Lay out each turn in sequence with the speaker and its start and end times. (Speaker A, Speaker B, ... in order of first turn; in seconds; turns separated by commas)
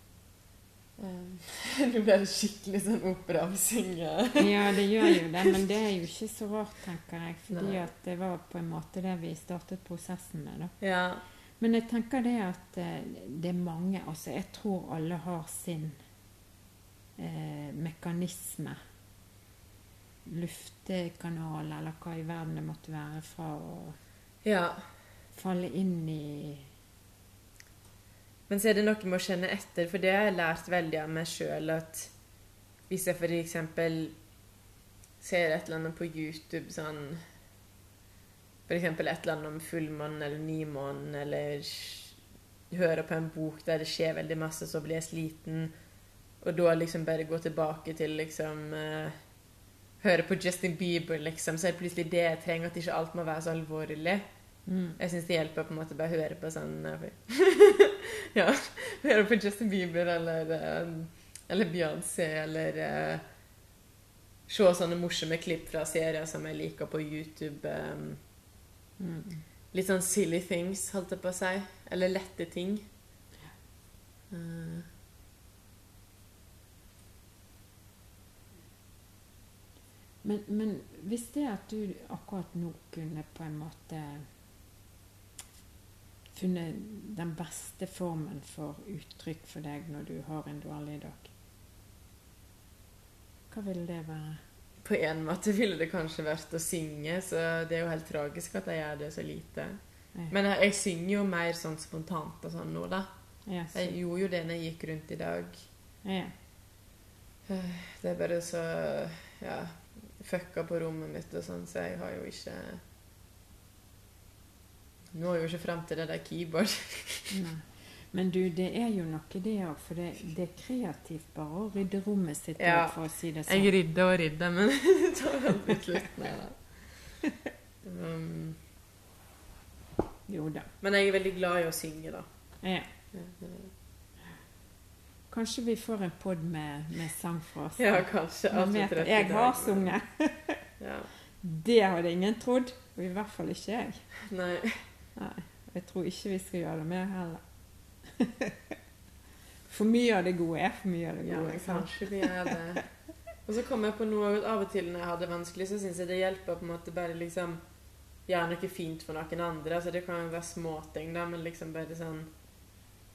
Speaker A: 1.0-5.5, Speaker B: 4.4-10.7, Speaker A: 7.5-7.9, Speaker A: 10.8-11.2, Speaker B: 11.6-16.0, Speaker B: 17.2-18.8, Speaker B: 20.2-24.0, Speaker A: 24.4-24.8, Speaker B: 25.3-26.7, Speaker A: 28.5-32.1, Speaker A: 32.9-34.1, Speaker A: 35.2-37.2, Speaker A: 38.7-42.2, Speaker A: 42.7-45.7, Speaker A: 46.4-49.1, Speaker A: 50.0-54.2, Speaker B: 54.7-55.0, Speaker A: 55.0-63.2, Speaker A: 64.5-68.2, Speaker B: 69.0-69.4, Speaker A: 69.7-72.9, Speaker A: 74.3-74.9, Speaker B: 80.2-84.3, Speaker B: 86.3-91.3, Speaker B: 93.5-94.4, Speaker A: 94.8-103.1, Speaker B: 103.5-103.9, Speaker A: 103.7-105.6, Speaker B: 106.0-106.3, Speaker A: 107.5-112.8, Speaker A: 115.1-117.3, Speaker B: 117.3-123.7, Speaker A: 122.6-127.1, Speaker A: 127.8-128.6, Speaker B: 130.3-130.7, Speaker A: 130.8-132.3, Speaker B: 132.6-132.9, Speaker A: 133.1-133.7, Speaker B: 135.3-140.6, Speaker A: 137.8-139.9, Speaker A: 140.8-141.1, Speaker B: 141.4-144.0, Speaker A: 144.2-144.8, Speaker B: 145.2-147.4, Speaker B: 148.1-148.7, Speaker B: 149.7-152.6, Speaker A: 151.2-152.8, Speaker A: 153.4-157.6, Speaker A: 158.2-162.3